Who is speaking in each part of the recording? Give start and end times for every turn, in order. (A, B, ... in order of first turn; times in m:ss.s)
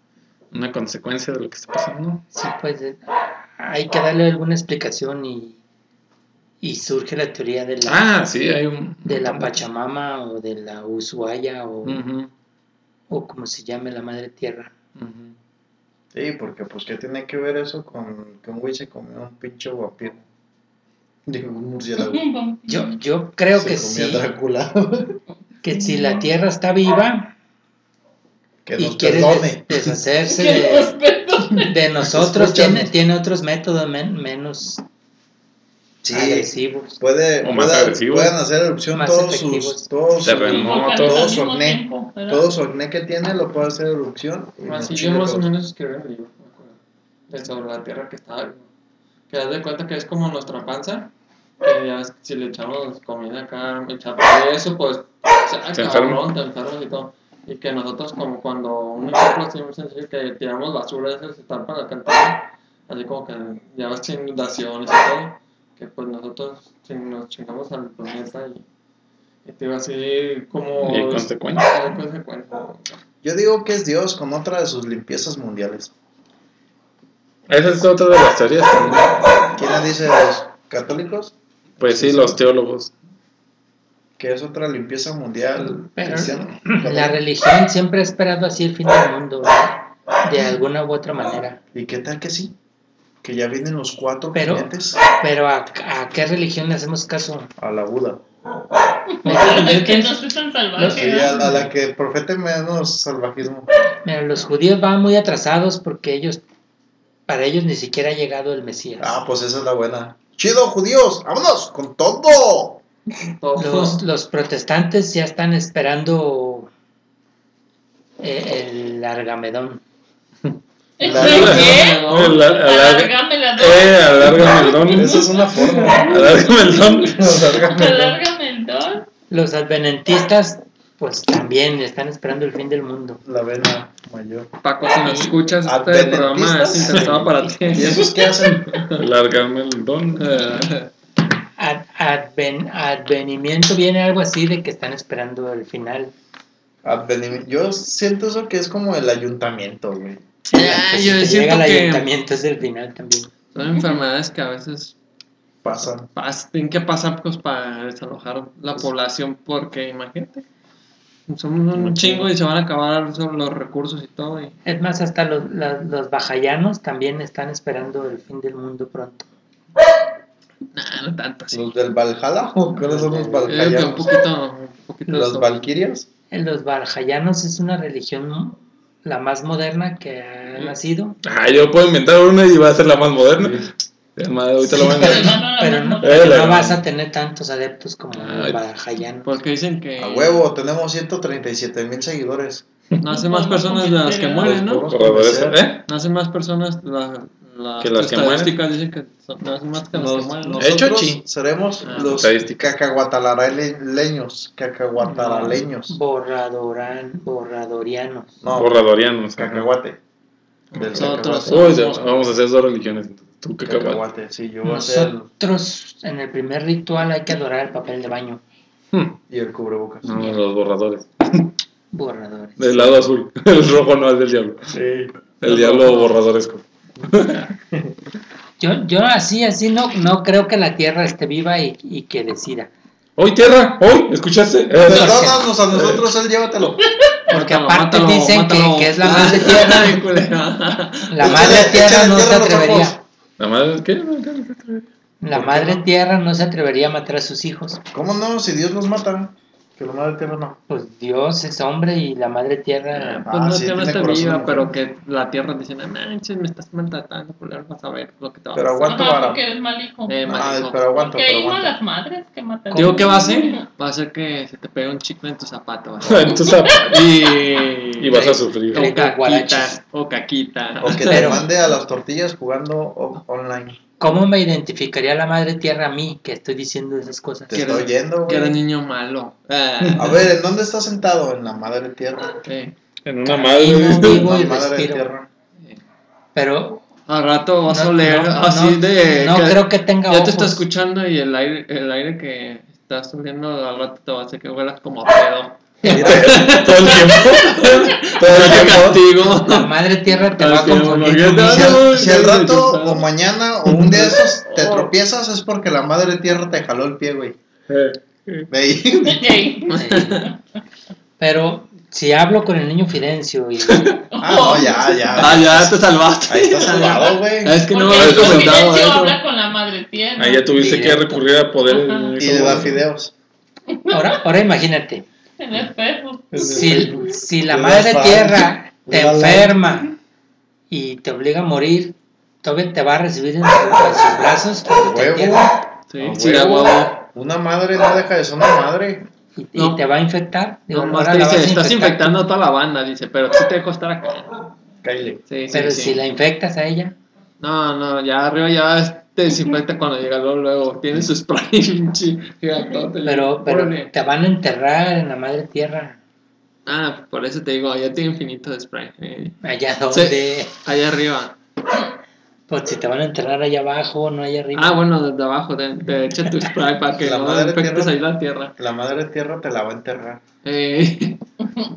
0:00.5-0:02.2 A
0:02.3-0:03.0 B
0:03.6-0:05.6 B
0:06.6-0:08.0 B
0:07.8-0:09.6 A
0:09.0-0:12.0 B
0:11.8-0:12.3 A
0:13.1-0:14.7 B
0:15.0-0:15.3 A
0:16.1-0:20.2 C
0:21.2-0:22.3 C
0:22.0-0:23.0 D
0:22.7-0:24.2 B
0:23.6-0:25.2 C
0:25.6-0:27.3 B
0:25.6-0:26.3 D
0:28.6-0:29.9 C
0:28.8-0:30.9 B
0:30.3-0:31.7 D
0:31.7-0:34.8 B
0:32.0-0:32.9 C
0:36.0-0:45.5 C
0:36.1-0:37.0 B
0:37.4-0:38.3 A
0:38.9-0:39.9 B
0:40.2-0:41.4 A
0:40.6-0:42.5 D
0:44.6-0:46.8 E
0:47.3-0:48.7 E
0:49.3-0:51.1 E
0:51.6-1:08.6 E
0:55.7-0:56.3 A
1:09.4-1:12.9 E
1:10.8-1:11.7 A
1:13.2-1:15.9 C
1:17.5-1:19.1 A
1:18.7-1:22.4 C
1:21.8-1:22.9 A
1:24.2-1:27.2 C
1:25.6-1:31.6 B
1:31.7-1:32.5 C
1:33.2-1:35.0 C
1:34.3-1:37.5 B
1:37.6-1:38.2 C
1:39.2-1:41.3 D
1:39.2-1:40.2 B
1:40.8-1:41.6 B
1:40.8-1:43.7 C
1:44.0-1:46.4 B
1:47.3-1:49.2 B
1:49.0-1:52.8 C
1:53.2-1:54.0 E
1:53.6-1:56.7 B
1:58.2-1:59.8 B
2:01.0-2:06.0 D
2:01.0-2:01.8 C
2:01.1-2:05.3 A
2:01.1-2:02.4 E
2:04.9-2:06.4 C
2:06.0-2:07.7 A
2:06.9-2:08.2 C
2:07.6-2:09.1 D
2:09.3-2:13.2 B
2:13.2-2:14.5 C
2:14.6-2:19.0 E
2:15.0-2:15.4 B
2:15.6-2:18.8 C
2:18.5-2:20.6 A
2:20.2-2:20.9 E
2:21.6-2:26.1 B
2:26.8-2:30.2 C
2:30.5-2:32.1 E
2:30.5-2:33.3 B
2:33.5-2:34.9 E
2:35.6-2:36.1 C
2:36.1-2:40.4 E
2:41.3-2:44.6 E
2:41.8-2:42.2 A
2:44.6-2:49.3 B
2:50.7-2:51.6 E
2:51.5-2:54.1 C
2:52.8-2:53.6 B
2:53.4-2:55.6 E
2:55.1-2:56.1 C
2:56.3-3:01.2 B
3:01.2-3:05.4 A
3:03.4-3:03.6 C
3:04.6-3:09.3 B
3:04.7-3:06.5 D
3:06.0-3:06.8 A
3:08.2-3:08.6 A
3:09.2-3:10.4 E
3:10.0-3:12.6 C
3:13.0-3:14.9 E
3:13.0-3:14.5 D
3:14.4-3:15.7 C
3:14.8-3:15.8 A
3:15.9-3:20.6 E
3:17.8-3:18.6 A
3:19.9-3:26.0 C
3:20.6-3:21.2 A
3:21.8-3:22.2 E
3:22.0-3:22.7 A
3:25.0-3:28.4 B
3:28.4-3:30.0 C
3:28.5-3:29.7 A
3:30.7-3:32.3 E
3:30.7-3:31.9 C
3:30.9-3:34.0 A
3:33.6-3:35.3 C
3:34.6-3:38.4 B
3:38.9-3:39.2 A
3:39.3-3:40.1 C
3:40.0-3:41.5 A
3:41.9-3:43.0 B
3:42.6-3:44.7 A
3:44.7-3:45.1 C
3:45.4-3:47.5 A
3:45.7-3:46.0 E
3:48.6-3:52.7 B
3:53.2-3:56.0 A
3:54.8-3:56.8 C
3:54.9-3:55.5 B
3:57.3-4:01.3 E
3:57.3-4:00.0 B
4:01.1-4:03.0 B
4:01.2-4:03.0 C
4:03.4-4:04.8 A
4:05.2-4:07.8 B
4:05.3-4:05.8 C
4:07.9-4:10.6 C
4:10.7-4:13.2 B
4:13.0-4:18.9 E
4:13.2-4:14.7 C
4:18.5-4:19.4 C
4:18.9-4:20.2 D
4:20.1-4:20.8 E
4:20.2-4:21.8 C
4:20.9-4:23.6 D
4:22.7-4:23.3 B
4:22.7-4:31.4 E
4:26.0-4:27.2 A
4:26.5-4:26.8 D
4:28.0-4:28.9 A
4:28.2-4:29.8 B
4:30.8-4:33.8 C
4:31.1-4:31.4 B
4:34.0-4:37.7 B
4:37.5-4:38.6 C
4:37.5-4:40.2 E
4:40.0-4:42.4 C
4:42.4-4:42.7 E
4:43.0-4:44.2 A
4:43.2-4:45.1 B
4:43.7-4:45.3 C
4:46.3-4:46.8 B
4:47.1-5:03.1 E
4:47.7-4:50.6 B
4:55.9-4:59.2 A
4:55.9-4:56.5 C
4:59.3-5:01.8 B
5:01.4-5:07.4 C
5:03.7-5:04.9 E
5:07.7-5:08.5 A
5:08.5-5:09.4 C
5:09.0-5:10.4 D
5:09.7-5:10.3 E
5:09.7-5:10.3 B
5:11.2-5:14.0 B
5:14.1-5:15.2 D
5:14.2-5:17.6 C
5:15.1-5:19.2 E
5:17.7-5:20.5 D
5:17.9-5:18.7 A
5:20.2-5:22.8 A
5:20.5-5:21.3 B
5:21.7-5:22.2 D
5:22.2-5:23.1 C
5:23.7-5:24.0 D
5:23.9-5:25.0 B
5:25.4-5:27.1 D
5:26.3-5:29.9 C
5:26.4-5:29.9 B
5:30.7-5:35.5 B
5:34.7-5:39.1 C
5:35.9-5:37.0 E
5:39.4-5:42.2 B
5:39.6-5:39.8 E
5:40.7-5:44.5 E
5:44.8-5:45.2 C
5:45.3-5:46.0 E
5:45.5-5:47.0 B
5:47.4-5:53.9 E
5:53.0-5:56.0 B
5:56.6-5:59.4 E
5:59.4-6:00.5 B
5:59.9-6:01.3 E
6:02.5-6:04.8 B
6:04.5-6:08.5 E
6:07.0-6:08.0 C
6:08.6-6:10.2 C
6:10.4-6:11.2 E